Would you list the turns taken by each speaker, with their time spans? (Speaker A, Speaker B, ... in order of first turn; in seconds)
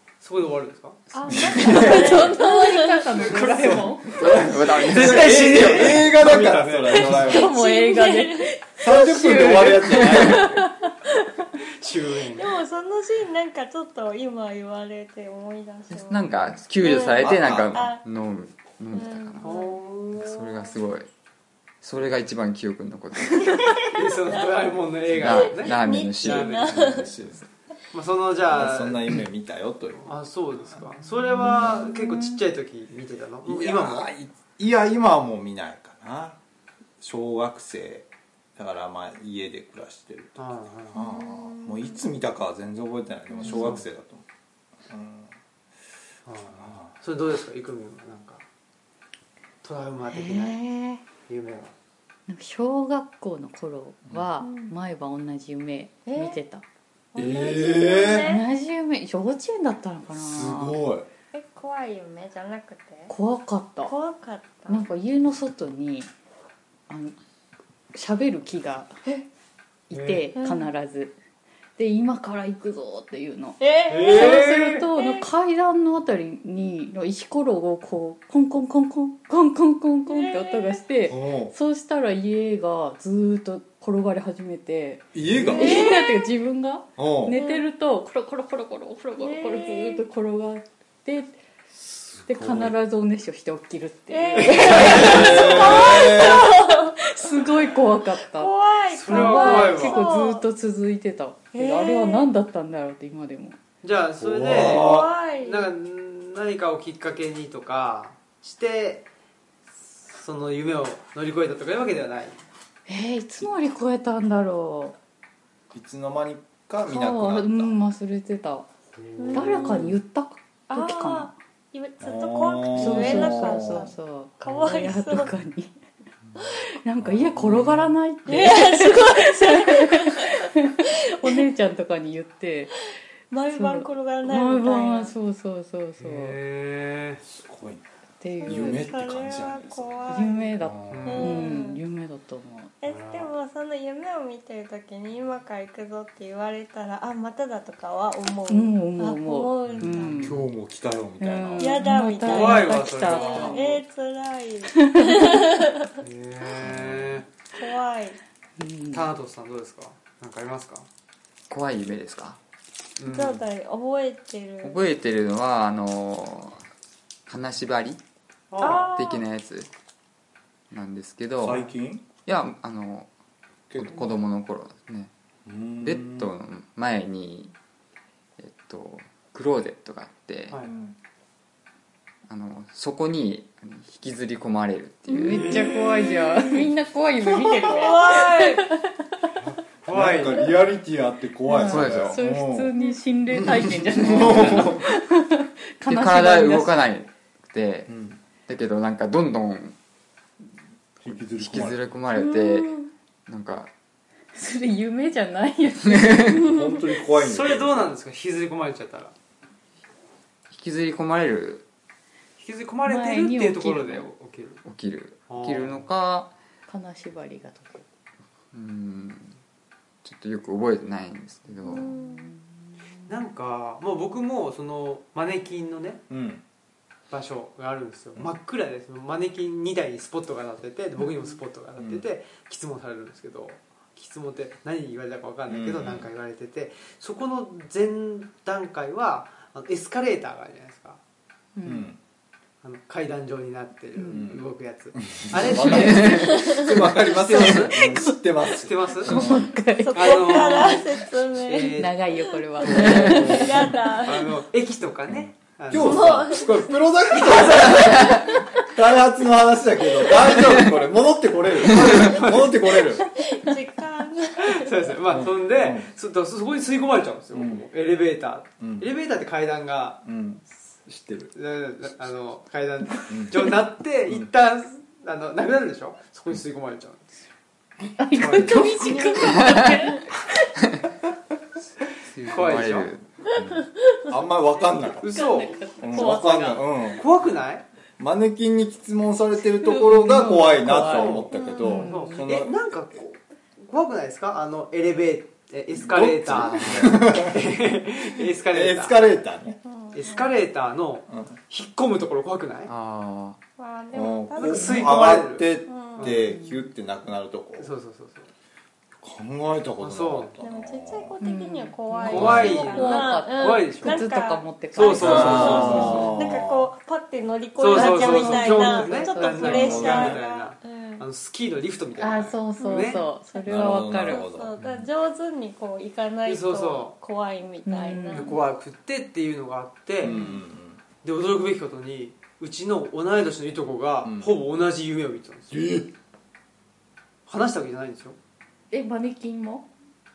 Speaker A: 0.2-1.0, 3.2-7.4, 11.8-12.5, 19.4-20.5, 23.9-26.9, 27.9-29.1, 30.0-34.1, 40.4-41.0, 43.5-43.8, 46.3-48.4, 49.6-50.6, 51.3-51.7, 69.9-70.3, 73.9-74.8, 94.4-95.2, 99.0-100.1, 103.8-109.1, 110.1-112.4, 119.0-119.8, 136.0-137.2, 140.9-141.4, 142.9-143.3, 152.2-153.8, 156.0-157.2, 158.9-160.9, 163.0-163.4, 168.5-168.9, 180.5-180.8, 185.2-186.0, 189.5-190.5, 207.1-209.1, 212.4-214.6, 215.3-215.8, 223.1-226.0, 227.1-241.0, 242.6-247.9, 248.5-249.3, 249.9-250.8, 251.4-256.3, 257.2-258.1, 261.6-262.8, 264.5-270.0, 271.3-277.1, 278.1-279.2, 282.2-282.9, 285.0-286.2, 286.8-287.6, 290.8-298.9, 299.9-302.7, 304.4-306.2, 307.6-308.3, 309.8-310.4, 312.1-314.0, 314.7-316.2, 317.6-323.0, 326.3-326.9, 328.1-330.2, 331.0-335.8, 337.3-338.2
Speaker B: 1.1-3.5, 7.2-8.6, 12.3-18.0, 18.9-19.8, 23.4-27.1, 41.0-42.0, 54.4-54.8, 56.1-56.4, 57.1-58.5, 61.3-63.1, 63.8-64.9, 70.3-70.7, 73.6-75.3, 80.1-80.8, 85.4-86.3, 87.3-87.7, 89.2-90.0, 94.1-97.5, 98.2-100.5, 101.5-102.3, 104.5-105.7, 119.2-120.0, 120.7-125.3, 128.3-130.5, 131.1-131.4, 133.3-135.1, 138.4-141.8, 142.8-150.4, 151.6-156.0, 157.5-158.2, 163.1-164.9, 168.6-169.2, 186.0-186.7, 187.5-188.7, 202.1-202.9, 206.3-206.8, 221.7-222.3, 246.2-246.7, 249.8-254.4, 255.7-257.7, 263.1-264.9, 278.6-280.0, 291.3-291.9, 299.6-300.3, 303.6-306.2, 310.4-321.1, 323.3-328.4
Speaker C: 1.3-2.3, 3.5-7.6, 8.8-10.7, 17.2-17.8, 26.7-27.4, 28.5-30.1, 33.4-36.4, 37.0-44.2, 44.9-45.3, 46.6-46.9, 57.2-58.3, 60.1-61.1, 81.1-81.5, 85.1-85.9, 87.0-87.4, 91.9-92.7, 94.8-96.5, 104.2-105.1, 115.7-117.8, 122.0-123.9, 127.0-127.9, 137.2-137.8, 138.5-141.2, 150.1-151.8, 156.6-157.2, 171.4-172.1, 173.7-174.2, 175.5-176.3, 180.7-180.9, 189.9-192.7, 193.3-194.9, 197.9-198.2, 201.0-201.8, 206.4-207.9, 226.1-226.4, 231.8-232.1, 235.5-236.1, 241.6-242.0, 244.1-244.4, 245.0-249.5, 252.8-253.4, 255.1-263.1, 265.1-265.9, 267.3-267.7, 268.6-268.9, 270.1-271.3, 273.1-273.5, 284.1-287.1, 288.0-292.6, 295.8-297.6, 298.4-299.6, 303.9-307.7, 309.0-311.1, 312.1-312.7, 314.9-316.7, 319.4-320.2, 323.4-324.5, 330.0-330.8, 334.0-334.3, 335.5-335.9
Speaker D: 1.5-4.5, 6.9-11.5, 31.0-32.4, 43.4-43.8, 50.1-51.0, 52.3-56.6, 58.1-60.8, 63.1-63.9, 64.7-66.1, 66.9-67.2, 67.9-69.0, 69.9-71.2, 71.8-91.4, 92.3-98.5, 99.0-103.6, 112.9-115.0, 116.8-118.7, 119.3-121.3, 122.7-125.8, 126.5-132.8, 133.5-136.4, 138.2-138.9, 140.1-142.8, 148.5-150.4, 151.2-153.6, 154.8-155.4, 158.6-159.1, 185.1-189.3, 191.5-196.8, 204.3-206.5, 212.8-214.1, 216.7-217.8, 221.6-222.7, 241.6-241.9, 244.0-244.3, 249.0-250.8, 251.7-253.8, 278.0-280.5, 285.1-286.7, 289.5-292.3, 306.3-306.6, 311.2-316.1, 317.7-320.1, 322.0-324.3, 327.7-328.4, 330.1-330.4, 338.7-339.7
Speaker E: 4.2-6.0, 16.0-19.5, 20.2-21.1, 21.8-23.8, 25.1-26.8, 161.5-162.4, 164.6-166.6, 167.3-168.0, 168.8-169.7, 170.7-171.7, 172.2-173.1, 173.7-175.1, 175.8-177.5, 178.4-180.6, 182.3-185.7, 191.7-192.2, 194.2-194.7, 195.9-197.9, 198.5-199.8, 201.2-202.7, 203.3-203.7, 205.9-206.4, 210.5-211.6, 214.7-216.3, 218.5-219.3, 220.0-221.9, 245.7-246.1, 279.2-279.7, 282.1-283.7, 302.7-303.4